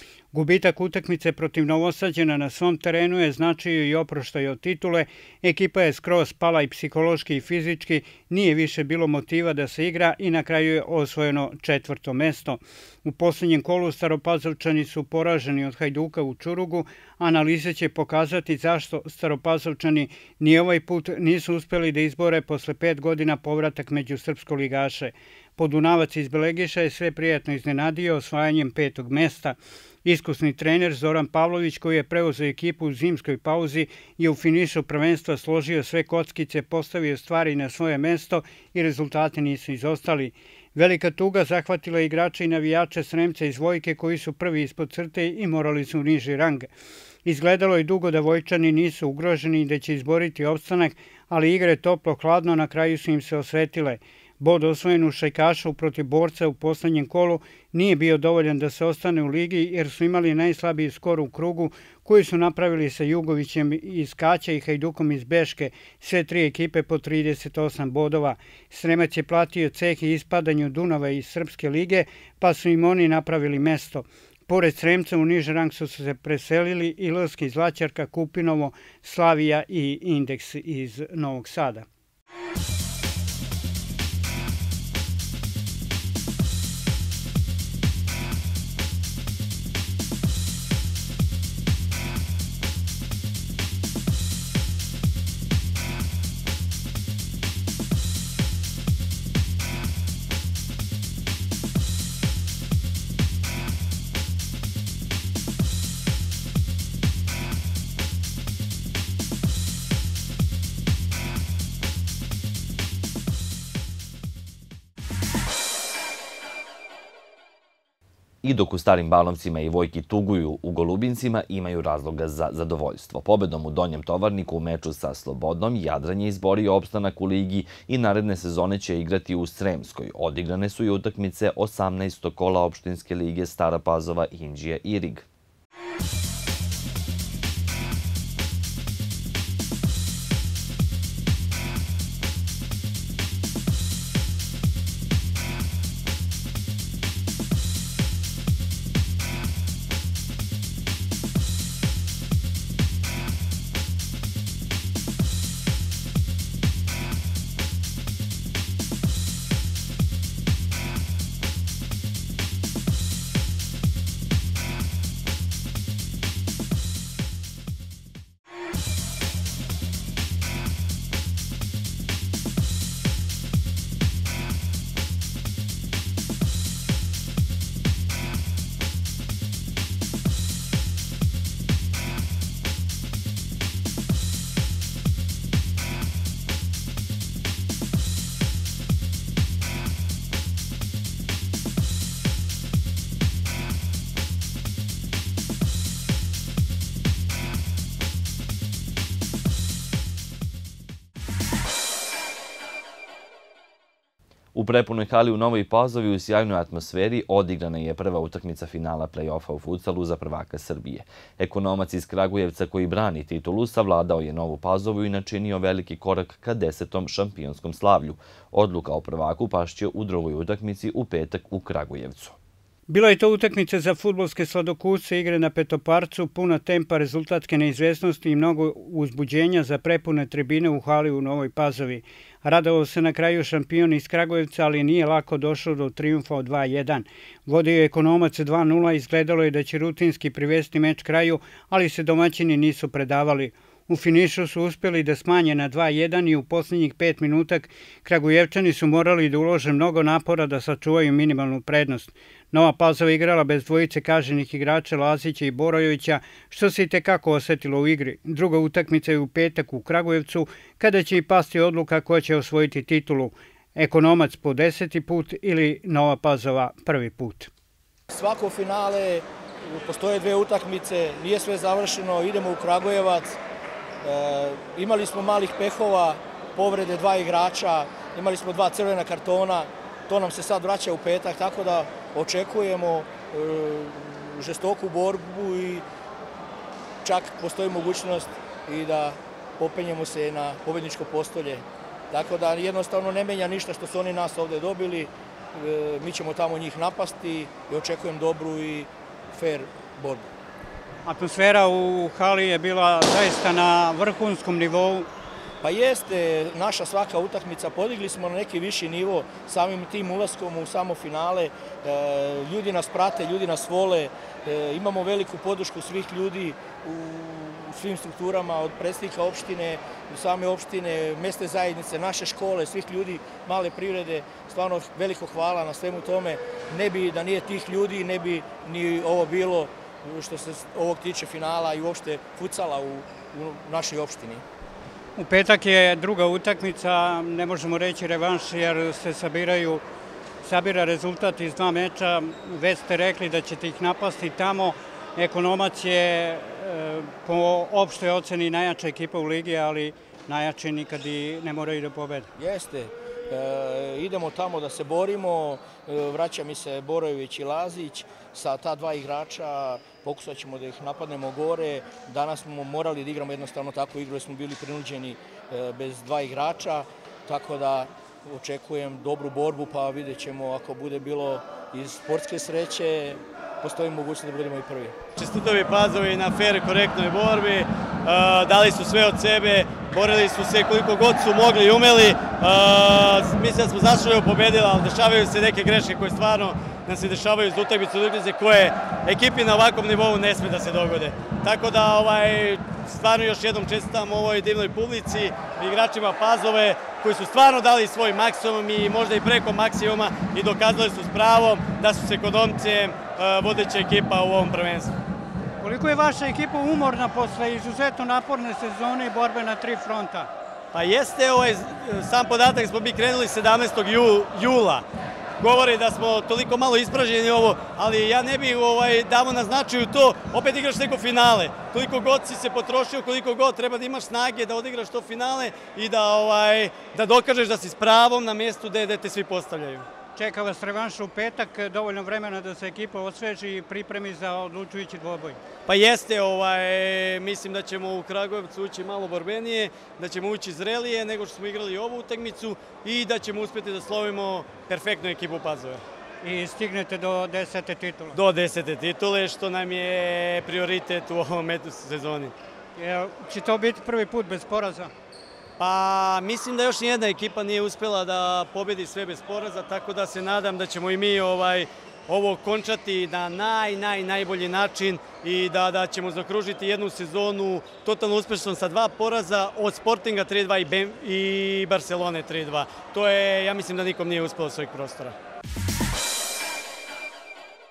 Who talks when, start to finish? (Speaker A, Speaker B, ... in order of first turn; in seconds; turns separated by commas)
Speaker A: 0.3-46.7, Speaker A: 47.2-81.9, Speaker B: 118.4-135.2, Speaker B: 204.5-222.3, Speaker A: 222.9-267.5, Speaker C: 268.1-273.4, Speaker C: 274.0-285.8, Speaker C: 287.0-300.3, Speaker A: 301.0-305.1, Speaker C: 305.6-334.4, Speaker A: 335.1-339.8, Speaker A: 340.4-352.3, Speaker C: 352.4-374.9, Speaker D: 375.1-404.9, Speaker A: 405.6-410.3, Speaker D: 410.7-414.9, Speaker D: 415.4-429.9, Speaker A: 430.1-435.4, Speaker D: 435.6-445.8, Speaker A: 446.2-448.2, Speaker D: 448.1-452.3, Speaker A: 452.8-454.9, Speaker D: 455.6-475.1